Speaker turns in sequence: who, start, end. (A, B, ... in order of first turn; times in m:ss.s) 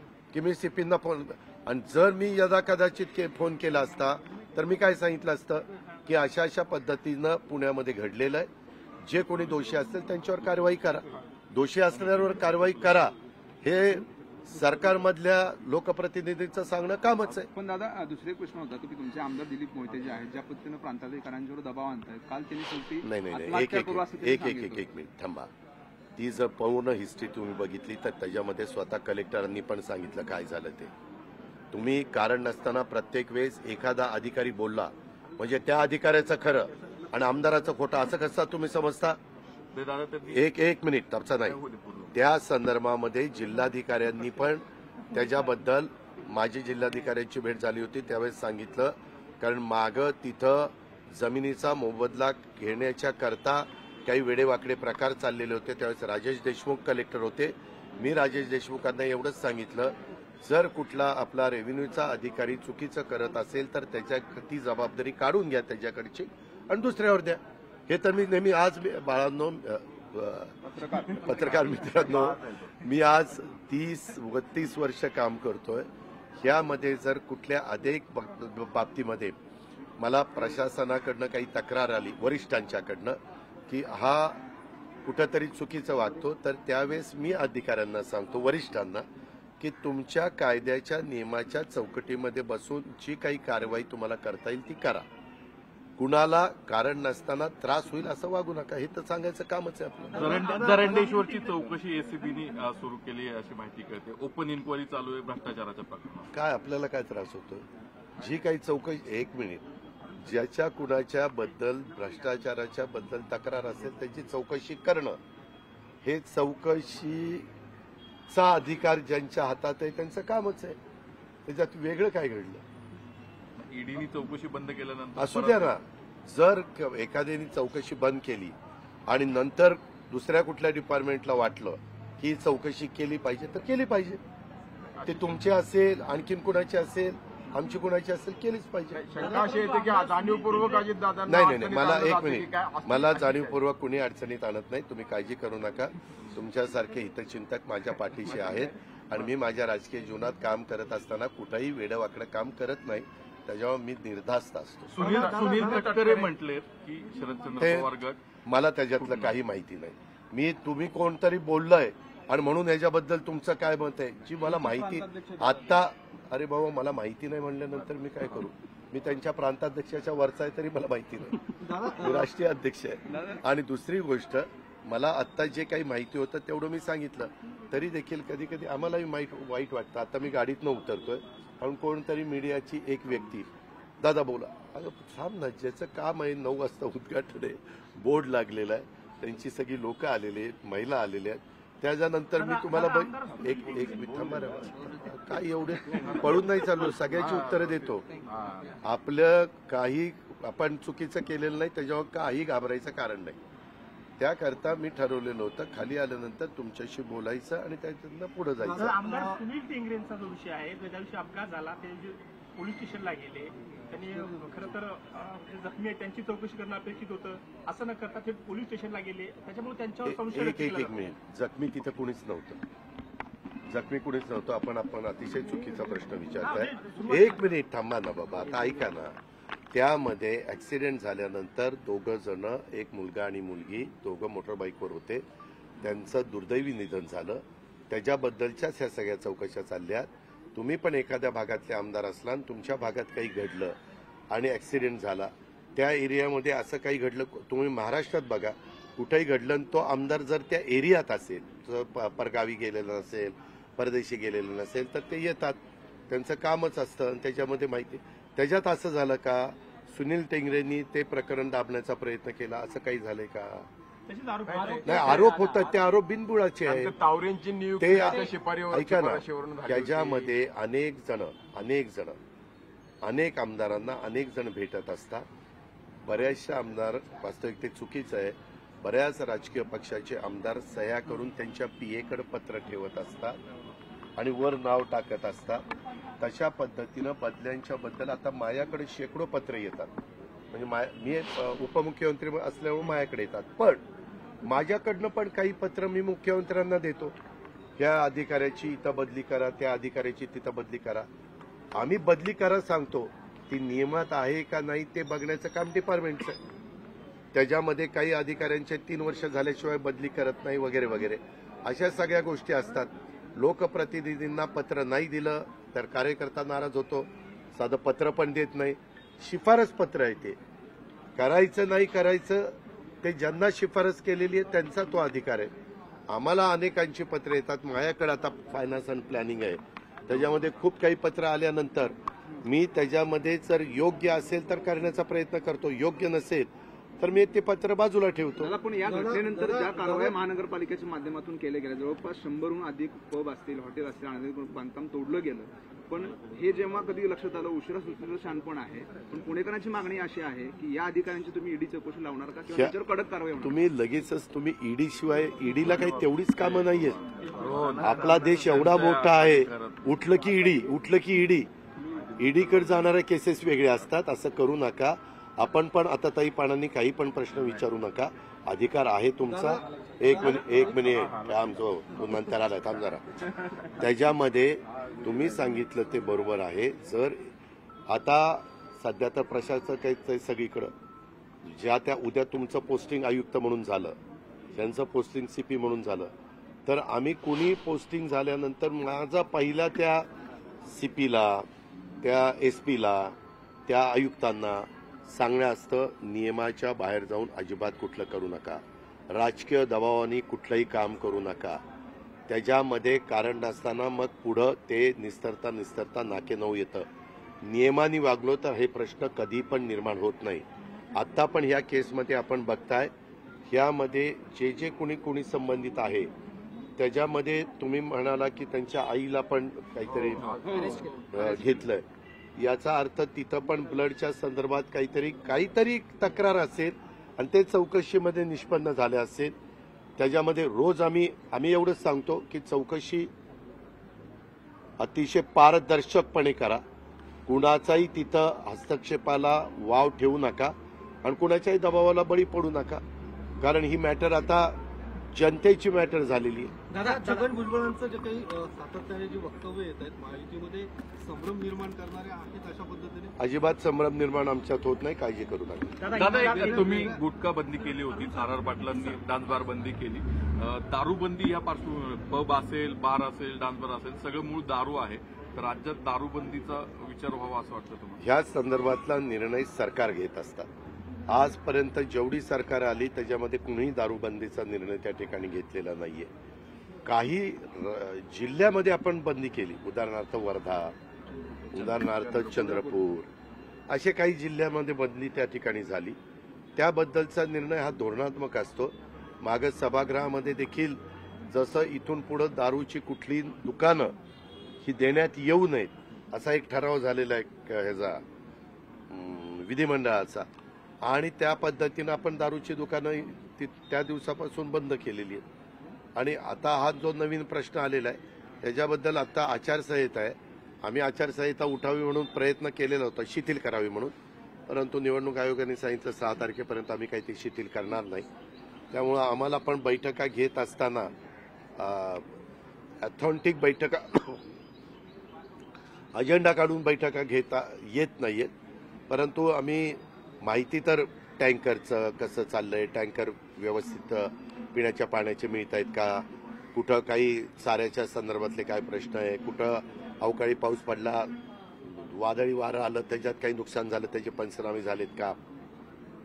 0:00.3-0:08.5 A
0:09.0-0:17.5 A
0:17.3-0:24.9 B
0:23.0-0:25.5 A
0:26.2-0:30.9 A
0:31.7-0:39.2 A
0:39.7-0:40.5 C
0:40.3-0:41.6 A
0:41.4-0:42.1 C
0:42.1-1:10.5 A
1:10.8-1:11.3 B
1:11.1-1:15.9 A
1:16.4-1:19.3 A
1:20.0-1:23.2 A
1:23.7-1:24.4 A
1:25.0-1:29.0 A
1:29.6-1:35.0 A
1:36.0-1:40.3 A
1:40.1-1:46.3 C
1:46.3-1:47.6 A
1:48.2-1:49.6 A
1:50.2-1:55.2 A
1:56.0-1:57.5 A
1:58.3-2:00.8 A
2:01.4-2:02.6 A
2:03.7-2:05.8 C
2:05.2-2:08.5 A
2:09.1-2:14.2 A
2:14.9-2:15.3 D
2:15.0-2:19.0 A
2:18.9-2:23.6 D
2:19.5-2:20.0 E
2:21.3-2:35.0 A
2:34.9-2:38.2 C
2:35.0-2:35.9 E
2:35.7-2:35.9 D
2:37.6-2:37.9 A
2:38.4-3:03.5 A
2:39.0-2:39.3 C
3:04.0-3:18.0 A
3:12.4-3:14.6 F
3:17.2-3:17.4 D
3:18.3-3:18.8 D
3:18.8-3:23.4 A
3:24.2-3:28.9 A
3:28.7-3:40.9 F
3:40.0-3:42.6 A
3:43.7-3:49.2 A
3:46.4-3:47.3 F
3:49.7-3:55.2 A
3:55.8-4:03.7 A
4:04.3-4:15.6 A
4:16.1-4:23.7 A
4:24.1-4:25.5 F
4:24.4-4:25.3 D
4:24.8-4:27.0 A
4:26.6-4:30.3 D
4:27.8-4:32.2 A
4:33.0-4:35.2 A
4:36.0-4:43.4 A
4:44.2-4:45.6 A
4:46.2-4:49.9 A
4:50.5-4:53.8 A
4:54.4-4:57.1 A
4:57.8-5:01.1 A
5:01.7-5:06.4 A
5:07.3-5:20.4 A
5:21.2-5:25.5 A
5:26.1-5:36.5 A
5:37.0-5:38.5 A
5:38.4-5:53.6 B
5:53.4-5:57.0 A
5:55.6-5:59.9 C
5:57.8-6:01.5 A
6:02.2-6:13.0 A
6:13.7-6:17.3 A
6:17.9-6:20.7 A
6:21.4-6:24.0 A
6:24.5-6:26.1 A
6:26.6-6:30.1 A
6:30.6-6:31.4 A
6:32.0-6:33.1 A
6:33.7-6:41.6 A
6:42.3-6:46.9 A
6:47.4-6:52.9 A
6:53.5-6:56.1 A
6:56.8-7:01.8 A
7:00.2-7:00.6 C
7:02.4-7:09.3 A
7:10.0-7:13.1 A
7:14.8-7:16.6 A
7:17.3-7:22.8 A
7:23.4-7:24.6 A
7:25.1-7:26.5 A
7:26.8-7:33.1 E
7:33.2-7:35.8 A
7:35.8-7:36.8 F
7:35.9-7:48.0 C
7:36.6-7:36.9 E
7:48.0-7:50.5 A
7:51.1-7:56.1 A
7:56.8-8:00.7 A
8:01.5-8:03.1 A
8:01.5-8:02.6 C
8:03.7-8:06.0 A
8:06.6-8:13.9 A
8:14.6-8:18.0 A
8:18.9-8:20.3 A
8:20.8-8:25.2 A
8:26.0-8:33.9 A
8:34.5-8:38.1 A
8:38.7-8:40.9 A
8:41.6-8:42.0 A
8:42.8-8:44.2 A
8:46.0-8:48.3 A
8:48.9-9:01.1 A
9:01.6-9:05.2 A